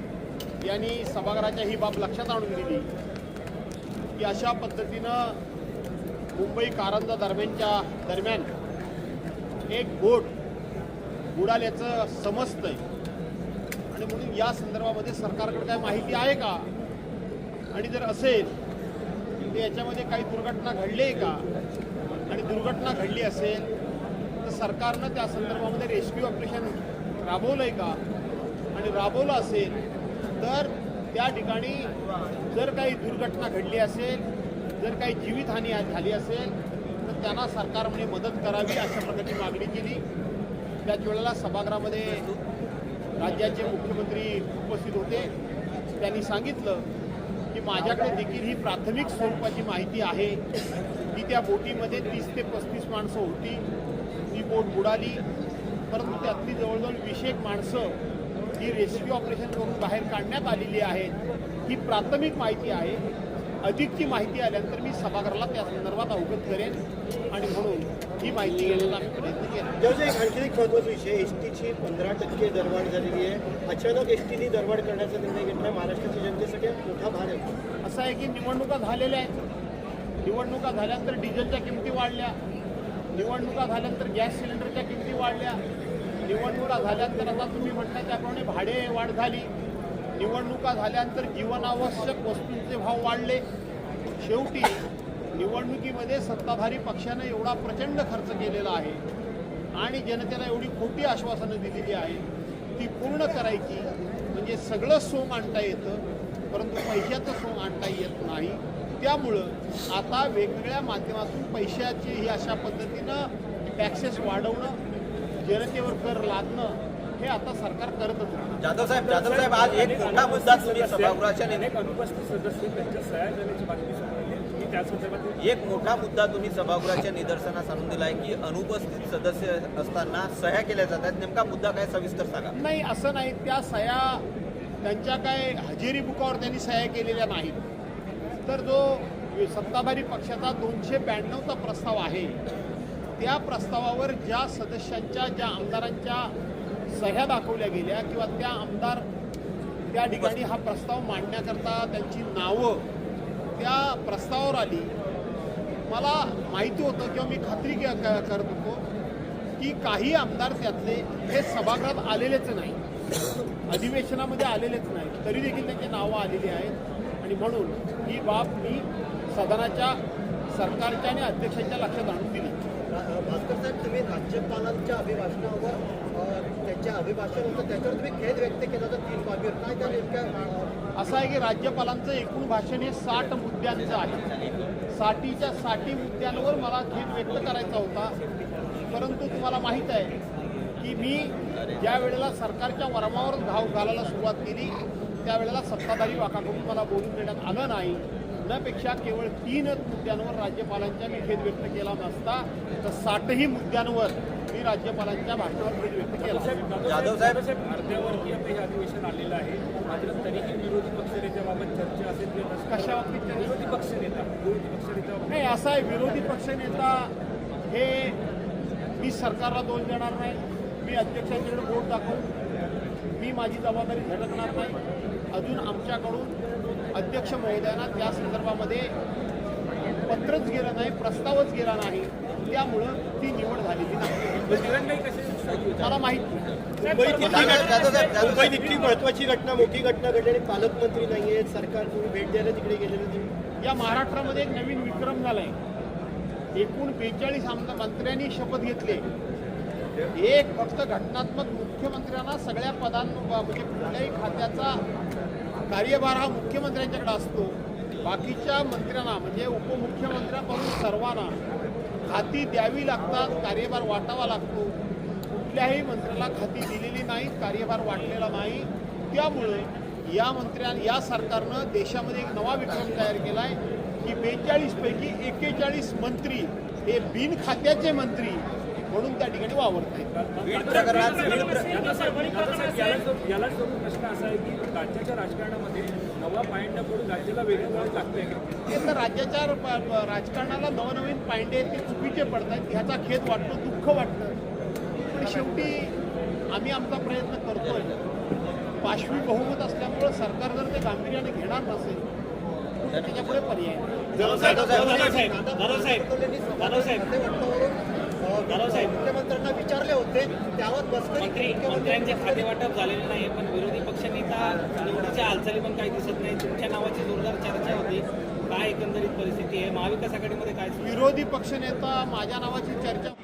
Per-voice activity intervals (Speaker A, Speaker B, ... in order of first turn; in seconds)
Speaker A: 0.6-2.9, 4.2-5.4, 6.3-8.5, 9.7-10.3, 11.3-12.8, 13.9-16.7, 17.7-18.5, 19.5-21.4, 22.3-23.7, 24.4-28.0, 28.7-29.8, 30.4-31.9, 32.5-34.2, 34.8-40.0, 40.8-42.3, 43.2-45.3, 46.0-46.9, 47.5-50.4, 51.1-53.6, 54.3-55.2, 55.9-58.0, 58.6-63.0, 63.6-69.7, 77.8-79.3, 80.2-82.3, 83.1-85.6, 86.2-89.5, 90.1-93.4, 94.2-94.8, 95.3-99.0, 99.8-102.2, 102.8-114.8, 115.4-118.5, 132.6-134.2, 134.8-137.6, 138.4-142.3, 143.2-146.3, 146.9-149.1, 149.9-152.8, 153.6-154.9, 155.8-158.8, 159.6-162.8, 163.7-170.0, 170.5-172.6, 180.9-184.3, 184.9-188.2, 188.9-190.1, 190.8-206.6, 212.7-213.7, 215.3-217.1, 217.7-218.2, 219.0-222.3, 223.1-224.8, 225.3-226.3, 226.9-228.9, 230.0-234.7, 235.8-236.5, 243.6-245.6, 246.5-249.0, 250.1-254.8, 255.7-261.4, 262.1-264.8, 265.3-280.1, 288.7-294.4, 295.0-295.9, 296.5-297.9, 298.8-302.0, 302.9-304.2, 320.8-323.1
Speaker B: 69.8-77.5, 172.9-180.7, 236.8-243.3, 304.1-312.4
Speaker C: 118.6-121.7, 125.4-132.5, 183.8-184.7, 206.8-207.4, 237.1-238.5, 280.4-282.7, 302.9-303.4, 304.3-305.2
Speaker D: 119.1-125.3, 206.2-215.3, 234.6-235.7, 236.8-238.9, 280.2-288.6
Speaker E: 304.2-306.1, 306.6-307.1, 308.5-308.9, 311.2-320.9